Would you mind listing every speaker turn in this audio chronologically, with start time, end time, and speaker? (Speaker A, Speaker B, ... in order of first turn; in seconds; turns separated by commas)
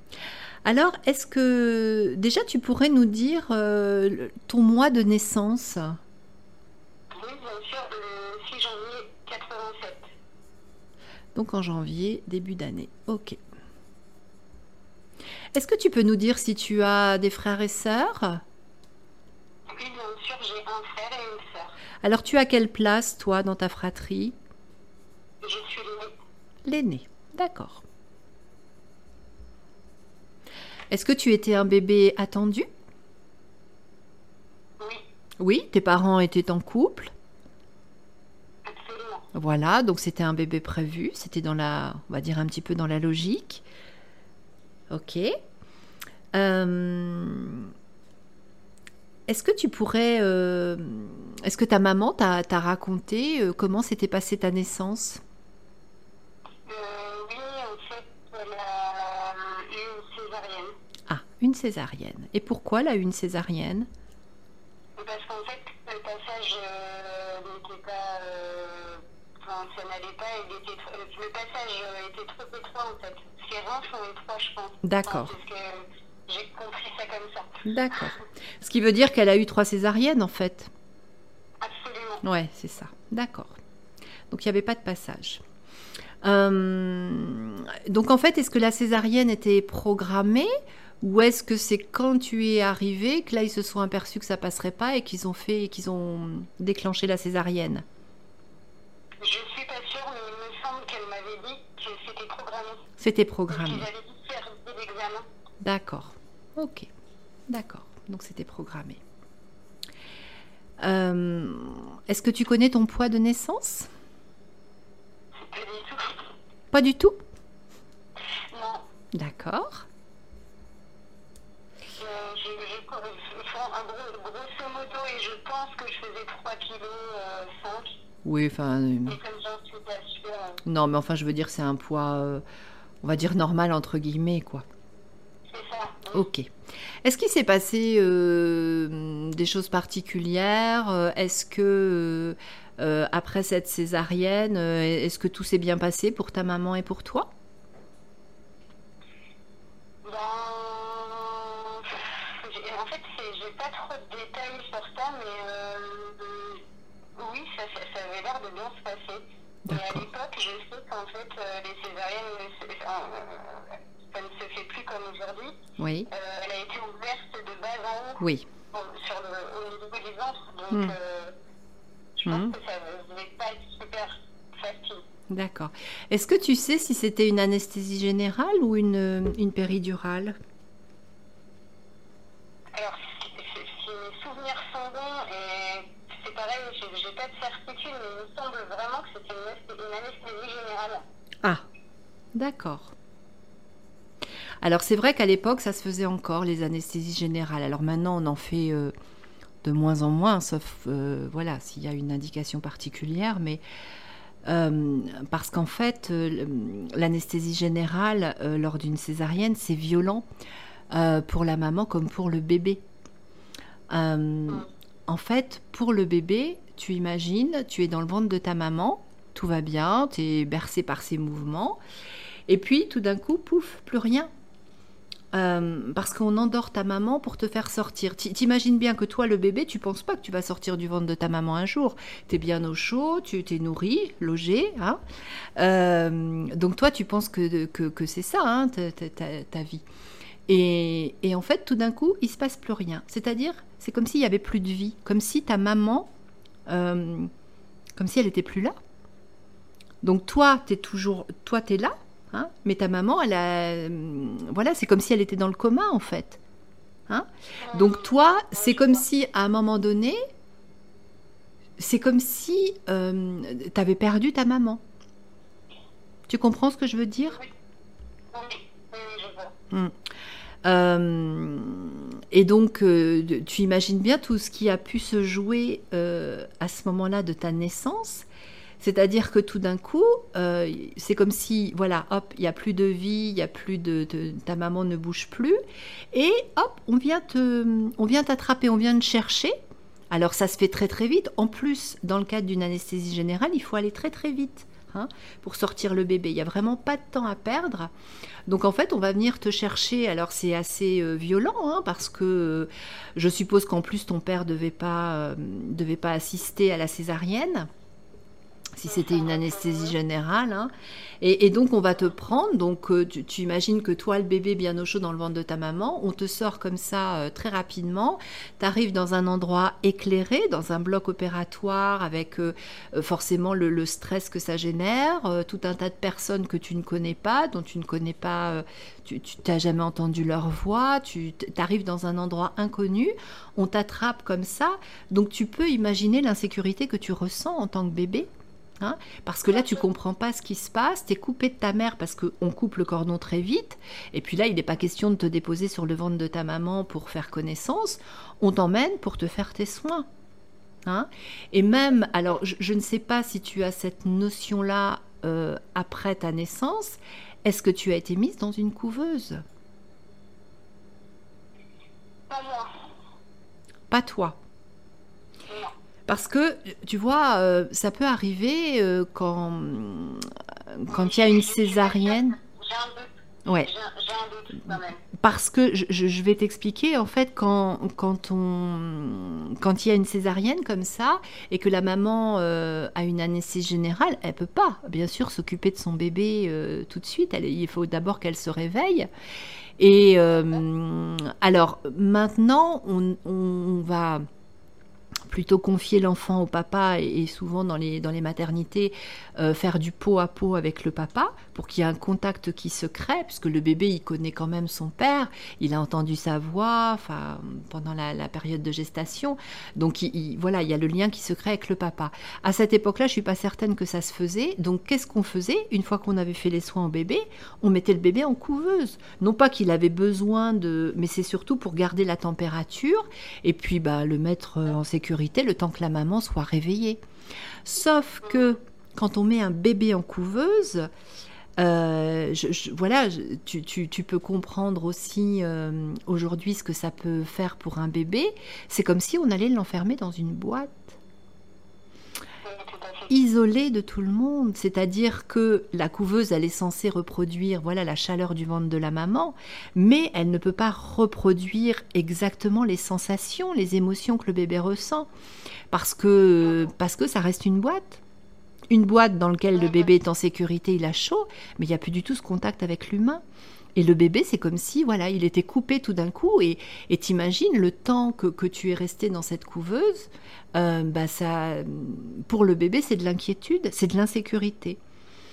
Speaker A: 0.6-6.0, Speaker B: 7.1-10.1, Speaker A: 11.3-13.4, Speaker A: 15.5-18.4, Speaker B: 19.7-21.7, Speaker A: 22.0-24.4, Speaker B: 25.4-26.1, Speaker A: 26.6-27.8, Speaker A: 30.9-32.7, Speaker A: 35.4-37.1, Speaker B: 38.6-39.3, Speaker A: 39.3-43.6, Speaker A: 44.9-45.3, Speaker A: 46.3-47.7, Speaker A: 49.3-55.2, Speaker B: 56.6-60.8, Speaker A: 61.1-63.9, Speaker B: 65.0-78.1, Speaker A: 74.8-75.3, Speaker A: 77.6-80.7, Speaker B: 81.6-82.2, Speaker A: 82.2-83.5, Speaker A: 84.3-85.4, Speaker A: 86.2-97.8, Speaker B: 99.2-102.9, Speaker A: 103.0-103.9, Speaker B: 103.5-105.2, Speaker A: 105.6-106.9, Speaker A: 107.5-109.0, Speaker A: 110.8-113.9, Speaker B: 115.3-116.3, Speaker A: 116.7-117.2, Speaker B: 118.3-118.8, Speaker A: 119.1-119.9, Speaker B: 122.0-128.0, Speaker A: 128.2-129.2, Speaker B: 129.0-130.6, Speaker A: 130.6-132.4, Speaker A: 133.0-134.7, Speaker B: 135.5-136.2, Speaker A: 136.1-136.5, Speaker A: 137.0-147.3, Speaker B: 150.0-156.6, Speaker B: 157.2-171.3, Speaker A: 159.6-160.1, Speaker A: 165.8-166.1, Speaker A: 168.2-168.4, Speaker A: 170.7-170.9, Speaker B: 172.2-175.0, Speaker A: 172.2-172.5, Speaker A: 175.3-180.3, Speaker B: 182.7-191.0, Speaker A: 192.3-192.9, Speaker A: 194.6-198.9, Speaker A: 199.6-203.6, Speaker A: 204.4-210.2, Speaker A: 210.9-212.8, Speaker A: 213.9-221.8, Speaker A: 222.5-224.3, Speaker A: 225.3-235.0, Speaker A: 235.6-239.8, Speaker A: 240.5-246.1, Speaker A: 246.7-247.3, Speaker A: 247.9-248.7, Speaker A: 250.0-256.4, Speaker A: 257.1-260.2, Speaker B: 257.6-259.0, Speaker A: 261.8-264.8, Speaker A: 266.3-267.4, Speaker B: 268.3-269.5, Speaker A: 269.7-269.9, Speaker A: 270.6-278.3, Speaker A: 278.8-285.6, Speaker A: 286.1-289.5, Speaker A: 290.1-297.9, Speaker A: 298.4-307.7, Speaker A: 308.8-338.3, Speaker B: 308.9-309.9, Speaker A: 338.8-350.1, Speaker B: 339.5-339.8, Speaker A: 350.8-359.4, Speaker B: 362.3-363.0, Speaker A: 363.9-364.4, Speaker B: 365.5-365.7, Speaker A: 366.1-372.4, Speaker B: 370.9-375.0, Speaker A: 374.6-389.1, Speaker A: 389.8-394.2, Speaker A: 395.3-427.0, Speaker A: 427.6-430.9, Speaker A: 431.6-441.0, Speaker B: 442.4-443.1, Speaker A: 443.1-455.1, Speaker A: 455.7-458.0, Speaker A: 458.7-463.2, Speaker A: 463.7-474.8